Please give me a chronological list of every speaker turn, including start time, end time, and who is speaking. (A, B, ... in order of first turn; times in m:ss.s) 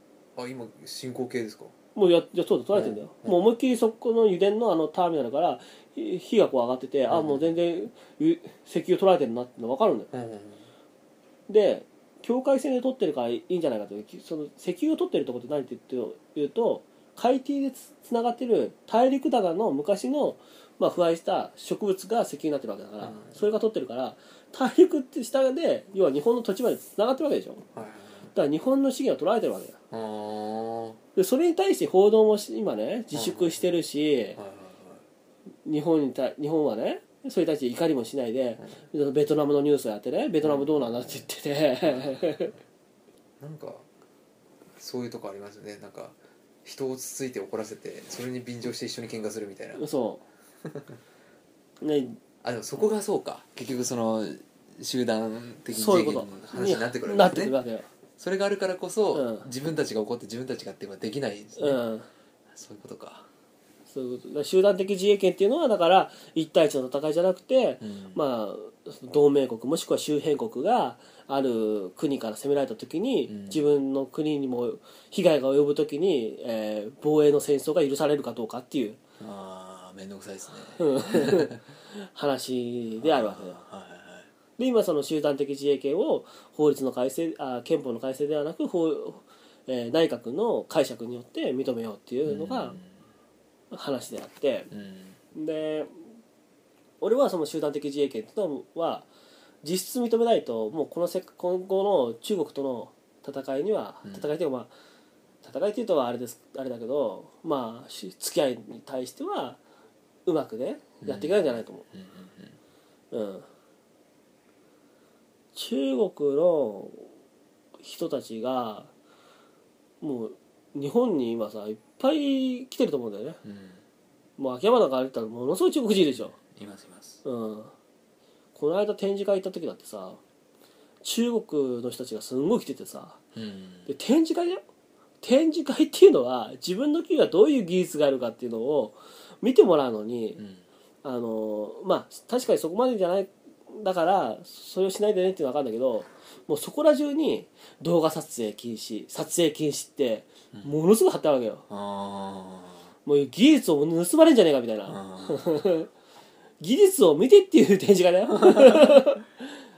0:00.4-0:01.7 A
0:01.9-0:10.1 B
0:02.7-0:03.5 A
0:07.1-0:07.5 A
0:10.1-0:10.6 A
0:11.5-0:27.6 B
0:23.0-0:23.4 A
0:27.7-0:28.3 A
0:28.3-0:29.8 B
0:29.9-0:31.0 A
0:31.1-0:34.4 B
0:33.1-0:33.6 A
0:34.3-0:35.0 A
0:35.6-0:42.6 B
0:40.4-0:40.8 A
0:41.8-0:42.6 A
0:43.4-0:43.9 A
0:44.8-0:49.8 A
0:49.8-0:50.2 B
0:50.6-0:51.0 A
0:51.8-0:52.2 B
0:52.4-0:57.6 A
0:55.7-0:57.9 B
0:58.2-1:01.8 A
0:59.1-0:59.5 B
1:01.6-1:02.1 B
1:02.5-1:03.3 A
1:03.9-1:19.0 B
1:07.8-1:08.2 A
1:13.3-1:13.7 A
1:19.2-1:21.6 A
1:20.8-1:23.6 B
1:23.0-1:24.3 A
1:24.6-1:32.8 B
1:32.2-1:33.0 A
1:33.7-1:34.7 B
1:34.7-1:35.2 A
1:35.3-1:35.9 B
1:37.0-1:39.1 B
1:39.6-1:44.7 B
1:44.0-1:44.3 A
1:45.4-1:49.6 B
1:50.2-1:51.8 B
1:51.0-1:52.6 A
1:53.1-1:53.4 B
1:55.6-1:57.1 B
1:57.8-1:58.9 B
2:00.0-2:03.4 B
2:03.4-2:03.8 A
2:04.4-2:06.3 B
2:06.1-2:07.2 A
2:07.2-2:07.7 B
2:08.6-2:10.2 B
2:11.0-2:13.2 B
2:13.3-2:13.9 A
2:13.9-2:14.6 B
2:15.2-2:20.4 B
2:20.4-2:20.6 A
2:21.0-2:31.6 B
2:31.7-2:32.9 A
2:33.0-2:35.9 B
2:34.9-2:35.7 A
2:36.6-2:39.3 B
2:38.4-2:39.0 A